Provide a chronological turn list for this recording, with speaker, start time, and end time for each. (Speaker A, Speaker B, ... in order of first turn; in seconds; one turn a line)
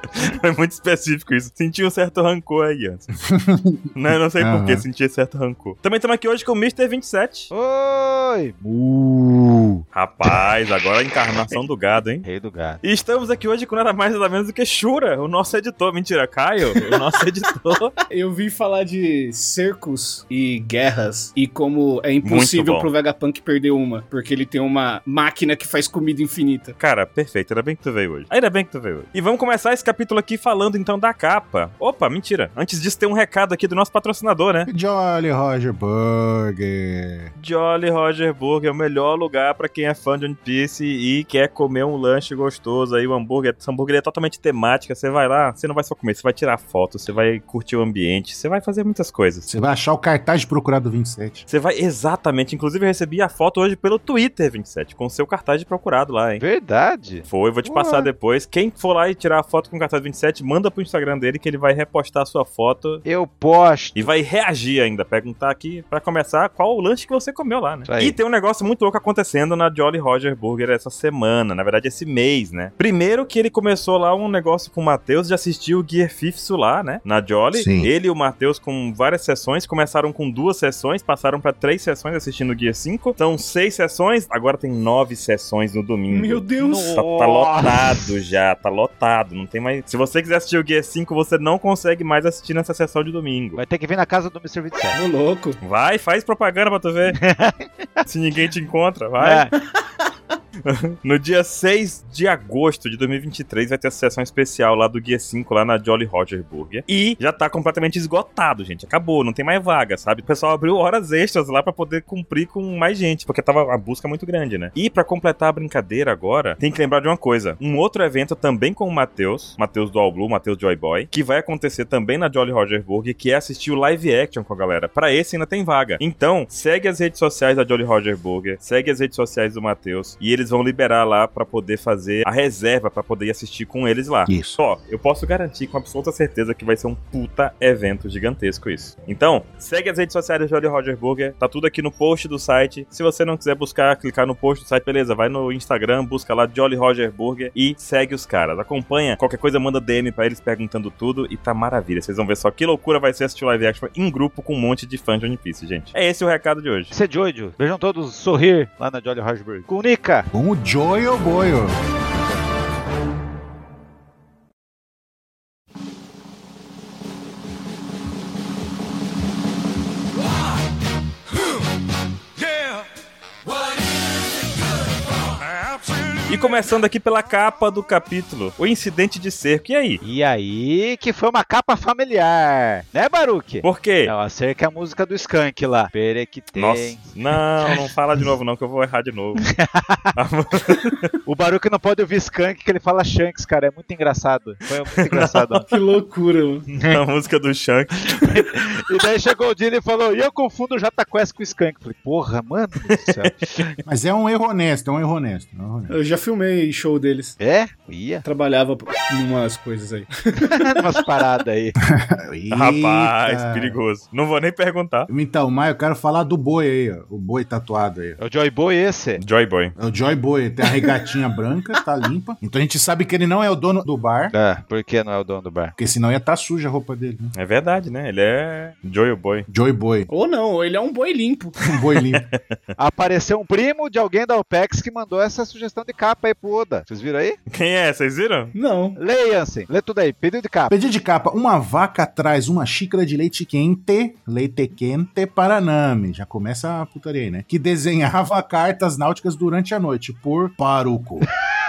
Speaker A: 0.1-3.1
Speaker B: 3.3-3.9
Speaker A: 3.9-7.5
Speaker B: 4.4-4.8
Speaker C: 7.5-10.3
Speaker A: 9.9-12.3
Speaker C: 12.2-12.8
Speaker A: 12.8-18.0
Speaker D: 18.1-26.7
Speaker A: 22.2-22.9
Speaker A: 26.8-34.7
Speaker B: 34.7-37.3
Speaker A: 37.4-49.5
Speaker B: 49.5-51.5
Speaker A: 51.5-56.4
Speaker C: 56.4-58.1
Speaker A: 57.3-63.0
Speaker C: 63.0-64.1
Speaker A: 64.0-93.6
Speaker C: 67.9-68.2
Speaker B: 77.5-77.9
Speaker D: 86.1-87.0
Speaker C: 86.6-88.1
Speaker C: 93.6-95.0
Speaker D: 94.9-95.6
Speaker A: 95.6-97.2
Speaker C: 97.2-98.1
Speaker A: 98.1-99.5
Speaker C: 99.2-99.5
Speaker D: 99.8-100.1
Speaker A: 100.6-156.9
Speaker B: 134.3-134.6
Speaker C: 156.9-160.3
Speaker B: 160.3-161.7
Speaker A: 176.3-180.0
Speaker C: 180.0-187.0
Speaker A: 183.6-184.1
Speaker A: 186.5-189.5
Speaker C: 189.5-190.1
Speaker A: 190.2-191.1
Speaker C: 191.2-195.7
Speaker A: 195.0-195.7
Speaker D: 195.7-196.7
Speaker A: 196.8-198.5
Speaker C: 198.1-203.7
Speaker A: 203.2-203.6
Speaker B: 203.8-205.9
Speaker D: 205.9-207.4
Speaker C: 207.4-208.2
Speaker D: 208.2-210.9
Speaker C: 210.4-211.8
Speaker B: 211.8-213.8
Speaker A: 212.5-215.1
Speaker B: 215.1-218.2
Speaker C: 218.2-219.2
Speaker A: 219.2-219.7
Speaker B: 219.8-224.3
Speaker D: 220.6-221.1
Speaker C: 224.3-225.8
Speaker B: 225.8-227.3
Speaker A: 227.3-229.5
Speaker B: 229.5-230.1
Speaker D: 230.1-231.6
Speaker B: 231.7-232.3
Speaker A: 232.1-232.4
Speaker C: 232.8-237.4
Speaker A: 237.5-238.5
Speaker D: 238.6-239.0
Speaker C: 239.0-240.7
Speaker B: 240.7-251.3